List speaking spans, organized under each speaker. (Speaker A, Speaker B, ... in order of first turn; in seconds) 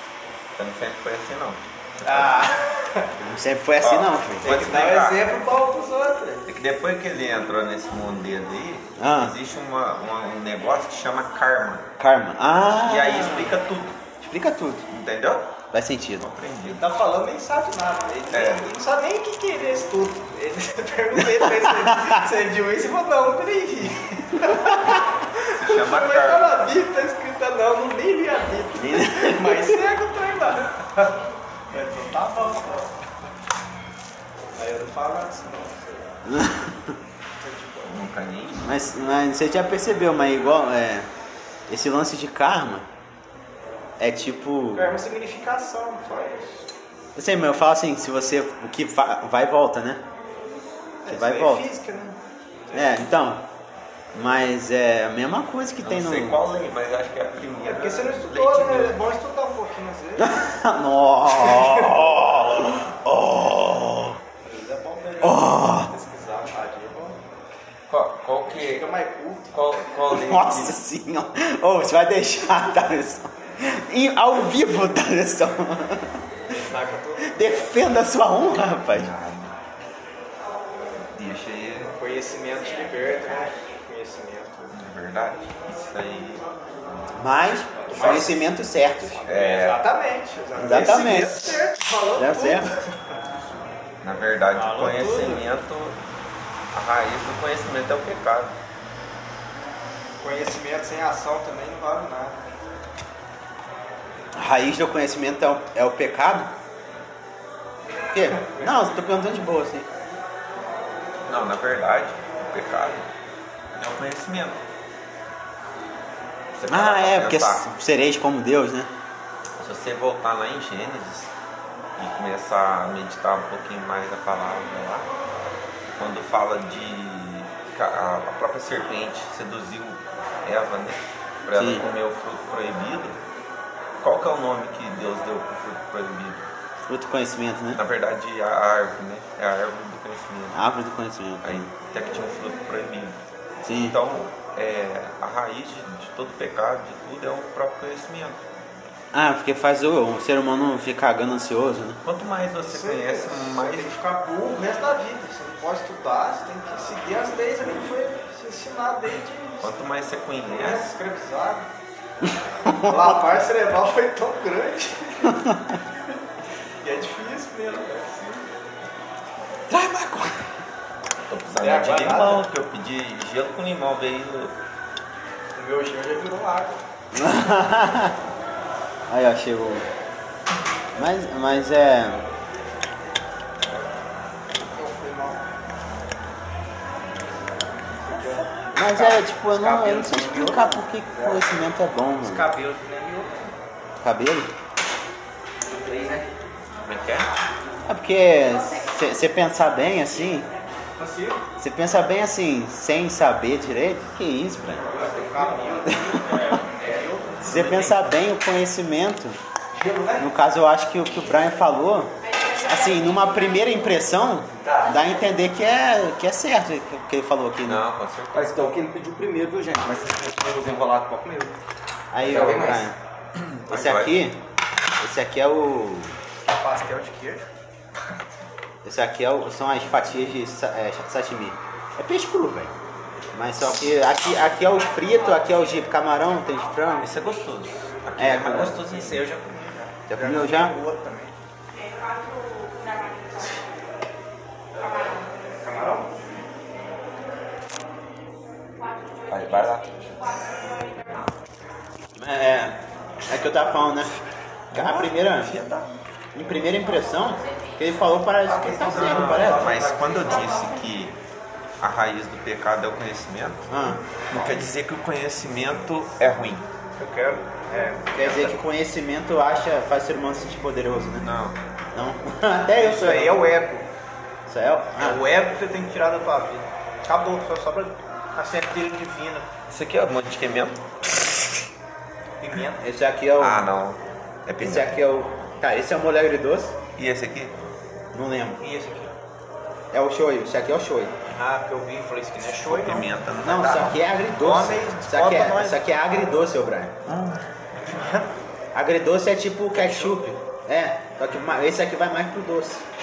Speaker A: 0.6-2.5, 3.8-5.3, 6.5-11.9, 12.8-14.0, 14.9-15.6, 16.2-16.9, 18.3-18.7, 25.5-26.5, 37.8-38.8, 55.8-59.0, 67.9-68.9, 69.5-70.8, 78.9-79.5, 81.0-81.9, 84.7-86.5, 87.9-88.3, 89.2-89.8, 94.0-96.0, 96.7-98.6, 111.3-113.0, 113.7-114.6, 116.5-117.7, 119.6-121.3, 122.0-125.1, 126.0-133.2, 134.0-136.4, 137.7-140.6, 141.4-143.2, 143.7-148.4, 152.0-154.0, 159.6-160.9, 171.3-174.5, 196.8-197.3, 207.4-208.0, 217.7-218.5, 223.3-224.2, 237.0-239.2, 249.3-249.9, 254.7-255.9, 258.8-261.1, 261.8-263.7, 264.3-266.6, 271.2-271.6, 279.7-280.9, 283.4-284.9, 286.9-287.5, 292.5-294.0, 297.1-297.4
Speaker B: 2.0-3.1, 4.4-6.5, 16.7-32.9, 34.5-36.1, 37.4-38.0, 44.7-46.7, 51.0-53.1, 57.6-60.4, 61.4-62.2, 64.4-67.2, 68.5-69.7, 76.5-77.8, 81.9-84.7, 87.8-88.5, 89.0-93.2, 94.5-95.4, 100.2-102.4, 108.5-108.7, 152.6-159.8, 160.5-161.7, 162.8-165.4, 166.8-168.5, 171.6-172.4, 175.5-176.8, 184.5-185.4, 188.0-191.4, 192.2-193.5, 201.0-201.4, 204.8-207.4, 209.8-210.2, 226.4-227.4, 238.5-241.3, 245.6-246.1, 267.0-268.6, 272.8-273.9, 275.0-279.5, 282.4-282.8, 288.6-289.1, 291.3-293.1, 294.4-295.8, 297.8-298.3, 299.7-300.2
Speaker C: 3.2-4.5, 9.0-9.3, 12.0-13.5, 14.2-14.8, 15.7-16.2, 21.4-22.2, 28.8-29.8, 36.2-37.0, 38.6-41.1, 41.7-42.9, 44.0-44.9, 47.1-50.0, 51.1-51.6, 52.7-53.4, 54.1-56.4, 60.2-64.2, 65.2-65.9, 70.1-76.2, 77.3-79.1, 87.1-89.2, 90.6-91.5, 92.2-92.7, 104.3-106.5, 108.1-109.9, 116.7-118.9, 131.5-131.8, 136.9-137.8, 140.5-141.7, 143.7-143.9, 149.1-152.0, 162.6-162.9, 165.3-165.8, 169.7-170.4, 177.1-178.2, 179.1-179.8, 180.9-182.2, 188.7-192.5, 194.0-194.5, 197.8-200.5, 201.6-204.8, 206.1-206.6, 207.4-209.4, 210.2-217.8, 222.1-222.9, 223.7-224.4, 225.0-226.1, 228.8-232.7, 233.3-237.1, 238.2-238.8, 240.1-240.7, 252.2-254.1, 254.7-255.5, 256.3-259.8, 263.7-264.5, 268.1-271.2, 271.9-273.4, 274.5-275.2, 282.8-283.7, 284.6-286.7, 288.1-288.6, 289.9-291.1, 293.4-296.9, 298.7-302.8
Speaker D: 195.6-196.3, 204.8-207.1, 214.6-214.9, 218.3-221.6, 222.2-222.9, 258.4-260.6